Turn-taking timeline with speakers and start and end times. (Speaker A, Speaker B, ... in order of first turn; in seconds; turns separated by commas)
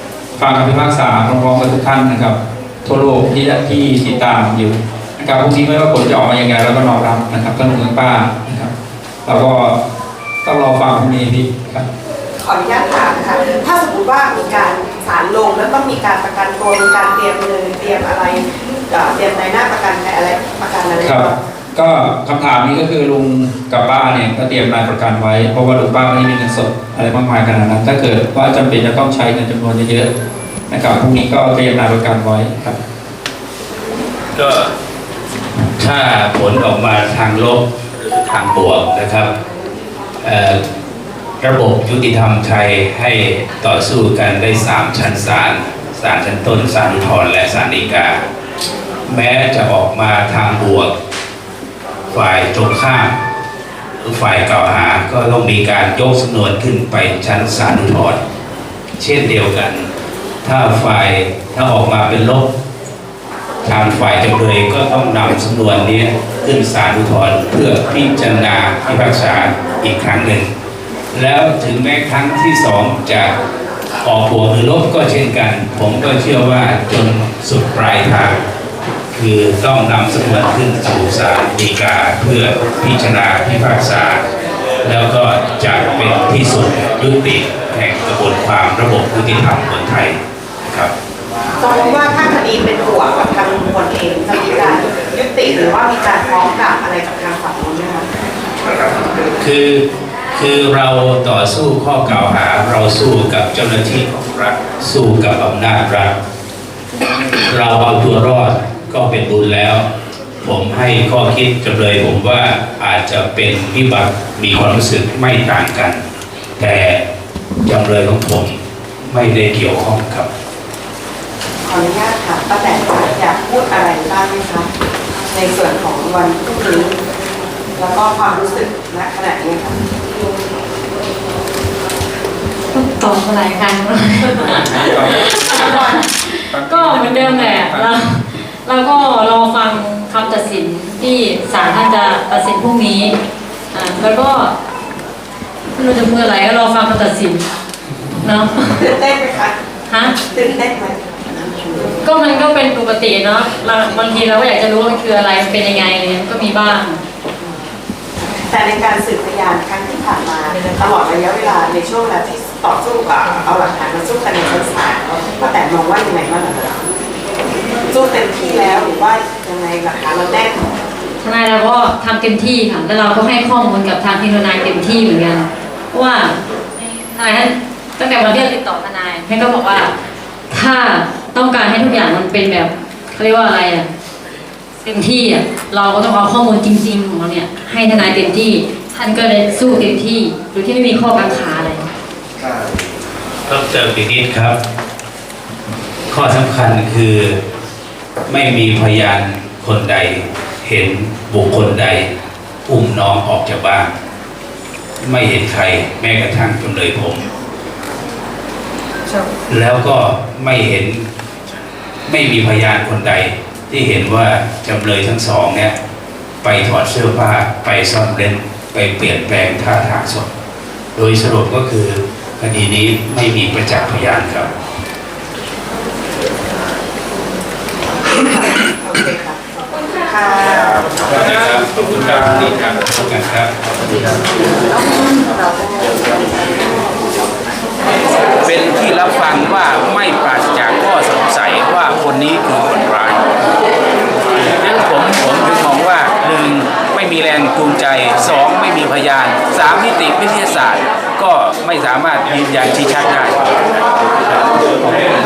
Speaker A: 0.4-8.7, Speaker A: 9.2-9.8, Speaker A: 10.4-11.9, Speaker B: 12.4-21.3, Speaker A: 21.0-30.1, Speaker A: 30.7-32.8, Speaker C: 34.4-34.7, Speaker C: 35.7-39.3, Speaker C: 40.2-40.6, Speaker C: 41.4-48.2, Speaker C: 49.1-50.9, Speaker C: 52.1-53.1, Speaker C: 54.0-58.2, Speaker C: 59.0-59.9, Speaker C: 60.4-62.5, Speaker C: 63.6-70.5, Speaker C: 71.1-73.3, Speaker C: 74.0-78.4, Speaker C: 79.2-84.2, Speaker C: 84.8-90.2, Speaker B: 91.6-98.1, Speaker C: 99.4-99.8, Speaker C: 100.4-106.2, Speaker C: 107.4-109.9, Speaker C: 110.4-116.0, Speaker C: 116.6-117.0, Speaker C: 117.7-120.3, Speaker B: 121.6-124.7, Speaker B: 125.3-127.0, Speaker B: 127.8-129.8, Speaker D: 132.7-143.2, Speaker A: 134.5-137.9, Speaker D: 143.7-144.5, Speaker D: 145.8-147.5, Speaker D: 148.2-148.8, Speaker B: 148.7-149.6, Speaker D: 149.9-150.2, Speaker B: 150.3-152.0, Speaker D: 152.0-157.0, Speaker B: 158.2-166.8, Speaker B: 167.9-170.7, Speaker D: 171.2-179.9, Speaker D: 180.5-183.9, Speaker D: 184.8-191.8, Speaker C: 193.5-194.6, Speaker C: 196.1-197.4, Speaker C: 198.3-202.1, Speaker C: 202.7-203.9, Speaker C: 205.0-207.3, Speaker C: 209.5-211.0, Speaker C: 212.1-215.8, Speaker C: 216.4-220.3, Speaker C: 221.0-224.5, Speaker B: 228.2-229.4, Speaker B: 230.0-231.0, Speaker C: 231.1-233.5, Speaker B: 234.4-236.7, Speaker C: 238.4-243.2, Speaker C: 244.4-253.5